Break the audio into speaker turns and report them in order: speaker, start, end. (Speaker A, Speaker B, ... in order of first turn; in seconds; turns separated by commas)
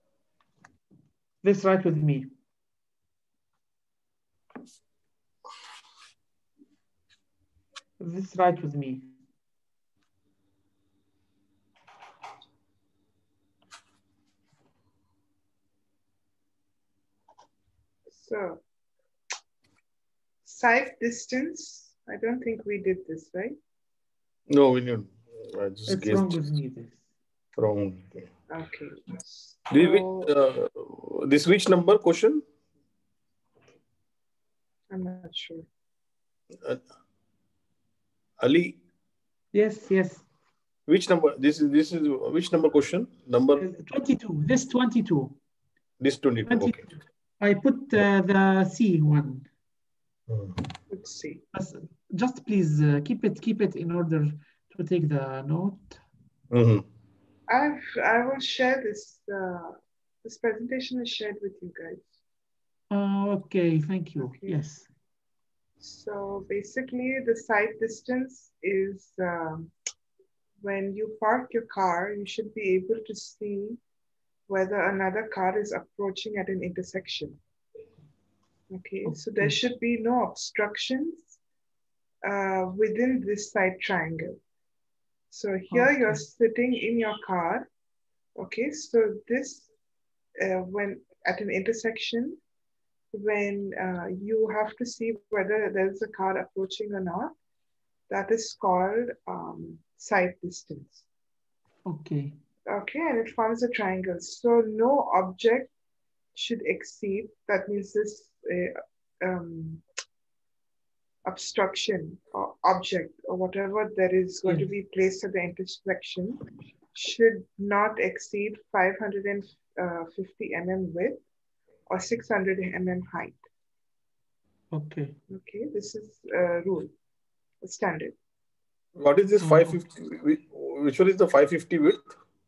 Speaker A: 1.4-2.3, Speaker A: 8.0-9.1, Speaker B: 18.1-18.6, Speaker B: 20.4-23.6, Speaker C: 24.5-26.4, Speaker A: 25.9-27.0, Speaker C: 27.6-28.2, Speaker B: 28.5-30.3, Speaker C: 29.7-32.4, Speaker B: 34.9-35.7, Speaker C: 38.4-38.8, Speaker A: 39.5-40.2, Speaker C: 40.9-43.6, Speaker A: 43.6-45.4, Speaker C: 46.0-46.9, Speaker A: 46.5-49.5, Speaker C: 50.3-50.6, Speaker B: 50.9-51.4, Speaker A: 51.5-56.0, Speaker C: 56.5-56.9, Speaker B: 57.5-62.1, Speaker A: 62.9-64.9, Speaker B: 64.2-64.5, Speaker B: 65.8-69.7, Speaker B: 70.6-73.8, Speaker B: 74.5-77.4, Speaker B: 78.7-81.4, Speaker A: 79.0-79.6, Speaker B: 82.2-84.4, Speaker B: 85.3-87.7, Speaker A: 85.7-86.2, Speaker B: 88.3-89.7, Speaker B: 90.4-92.4, Speaker B: 93.1-97.3, Speaker B: 98.1-101.0, Speaker A: 101.8-102.3, Speaker B: 102.7-105.7, Speaker B: 106.3-109.8, Speaker B: 111.2-116.4, Speaker A: 114.4-114.7, Speaker B: 116.9-121.2, Speaker B: 121.9-123.4, Speaker A: 124.7-125.2, Speaker B: 125.3-126.9, Speaker B: 127.6-128.2, Speaker C: 128.9-132.1, Speaker A: 129.4-129.8